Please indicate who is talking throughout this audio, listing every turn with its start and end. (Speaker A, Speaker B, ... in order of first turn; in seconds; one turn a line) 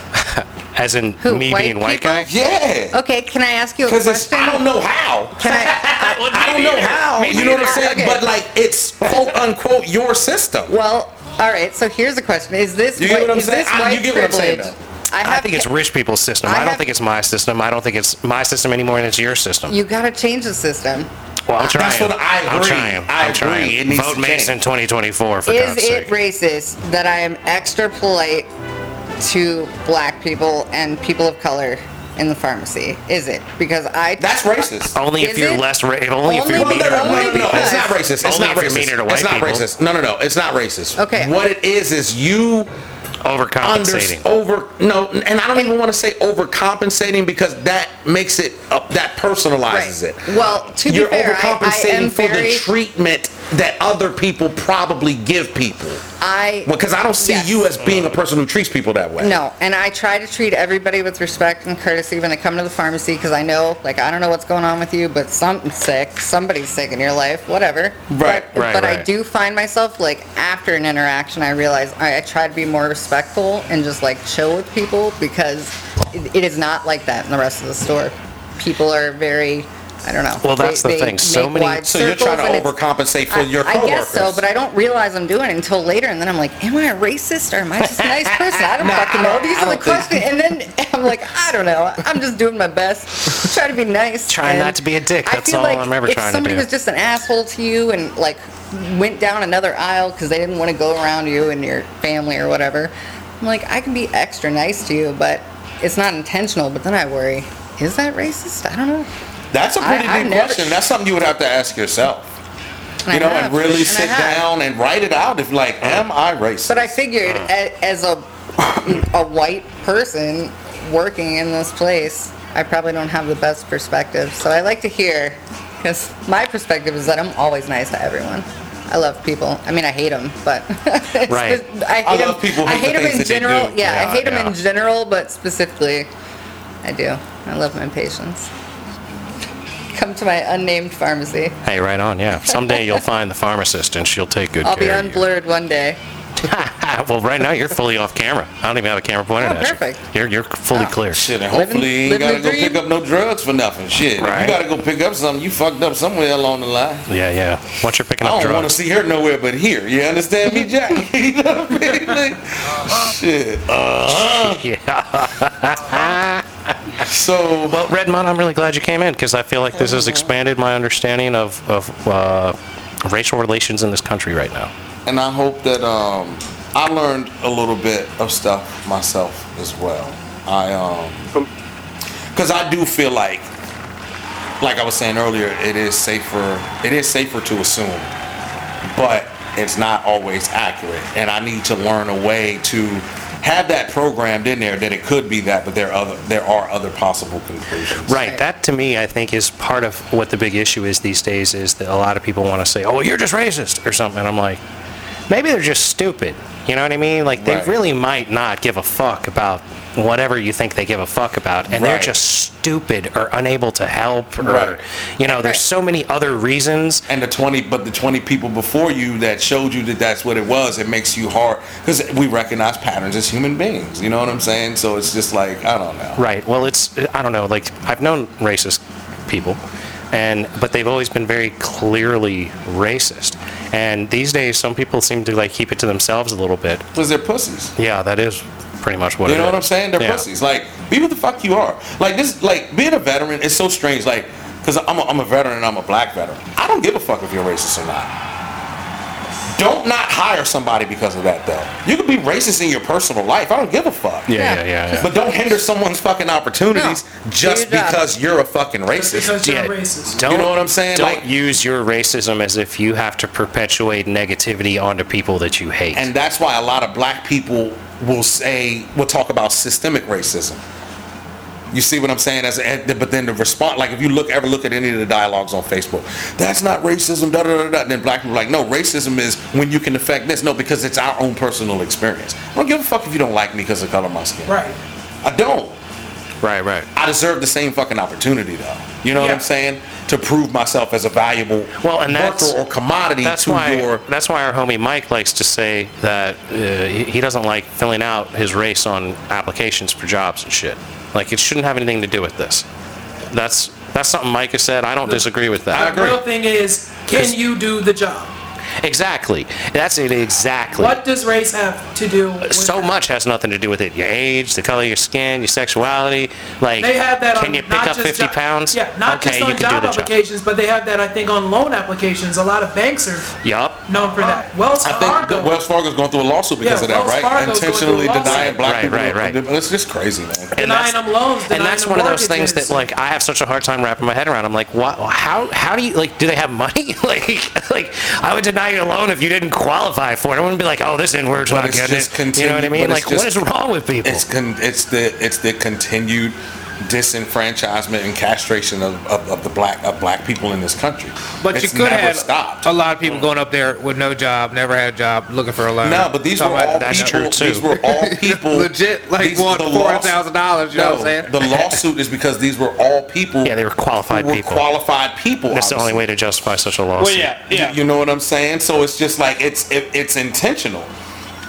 Speaker A: 0.2-2.3
Speaker B: 1.2-4.7
Speaker C: 2.3-3.0
Speaker C: 3.9-10.8
Speaker B: 5.4-6.3
Speaker A: 5.5-8.1
Speaker B: 7.2-8.3
Speaker B: 10.7-15.7
Speaker C: 12.9-14.8
Speaker A: 15.2-19.8
Speaker B: 16.4-16.9
Speaker B: 19.7-21.1
Speaker A: 21.5-26.1
Speaker C: 21.6-24.6
Speaker B: 25.5-28.5
Speaker B: 29.2-35.6
Speaker C: 34.2-35.0
Speaker A: 34.9-39.6
Speaker B: 36.2-38.0
Speaker C: 36.5-42.7
Speaker B: 41.0-41.3
Speaker A: 43.2-44.2
Speaker C: 43.6-56.0
Speaker B: 49.7-52.7
Speaker B: 56.2-57.8
Speaker C: 56.6-59.4
Speaker B: 59.2-82.8
Speaker C: 68.1-68.5
Speaker A: 68.5-69.1
Speaker A: 80.4-81.8
Speaker C: 81.8-84.4
Speaker B: 83.3-109.1
Speaker A: 88.0-89.8
Speaker C: 88.8-90.2
Speaker A: 94.3-96.7
Speaker C: 109.5-112.3
Speaker B: 109.8-110.8
Speaker B: 113.1-114.5
Speaker C: 113.1-117.0
Speaker B: 116.7-136.1
Speaker A: 131.3-131.7
Speaker C: 132.0-133.9
Speaker A: 133.8-134.6
Speaker B: 136.8-138.5
Speaker B: 139.9-141.6
Speaker A: 141.7-145.2
Speaker B: 142.5-142.9
Speaker B: 144.6-146.0
Speaker A: 146.4-151.3
Speaker B: 149.4-150.0
Speaker C: 151.1-157.1
Speaker B: 151.5-152.9
Speaker A: 154.2-154.6
Speaker A: 157.1-158.8
Speaker C: 158.2-164.6
Speaker A: 164.2-166.7
Speaker C: 167.0-167.9
Speaker A: 167.7-174.7
Speaker C: 169.8-170.3
Speaker C: 175.1-181.4
Speaker C: 182.3-183.5
Speaker C: 184.6-188.1
Speaker C: 188.8-198.2
Speaker A: 198.1-204.6
Speaker A: 205.3-217.1
Speaker C: 207.4-207.8
Speaker C: 211.7-212.2
Speaker C: 214.4-214.8
Speaker B: 215.3-215.6
Speaker C: 217.1-226.2
Speaker A: 226.2-229.6
Speaker A: 230.1-236.9
Speaker C: 236.9-237.8
Speaker A: 237.8-240.2
Speaker C: 239.2-248.1
Speaker C: 249.5-254.3
Speaker A: 254.3-255.1
Speaker B: 254.3-255.0
Speaker C: 255.0-259.4
Speaker B: 256.7-258.1
Speaker D: 258.9-260.2
Speaker A: 259.4-266.1
Speaker C: 260.1-261.3
Speaker C: 265.9-270.6
Speaker C: 271.7-284.6
Speaker D: 284.5-284.8
Speaker C: 285.2-285.8
Speaker A: 286.4-286.9
Speaker C: 286.9-294.0
Speaker D: 289.1-289.4
Speaker A: 291.8-292.6
Speaker A: 293.2-302.7
Speaker A: 303.3-306.2
Speaker D: 305.0-308.3
Speaker A: 308.8-311.0
Speaker D: 310.7-312.9
Speaker A: 312.4-320.1
Speaker D: 316.8-323.4
Speaker A: 323.4-323.8
Speaker D: 323.9-325.6
Speaker C: 324.8-330.5
Speaker D: 326.6-328.6
Speaker A: 328.2-329.4
Speaker D: 330.6-332.9
Speaker A: 330.6-344.2
Speaker C: 341.4-343.4
Speaker C: 344.0-352.7
Speaker E: 351.4-357.2
Speaker C: 355.8-360.2
Speaker A: 356.8-357.7
Speaker E: 357.8-361.3
Speaker C: 360.7-363.6
Speaker A: 363.4-364.6
Speaker C: 364.1-366.0
Speaker A: 365.5-367.4
Speaker E: 367.0-367.8
Speaker C: 367.5-370.9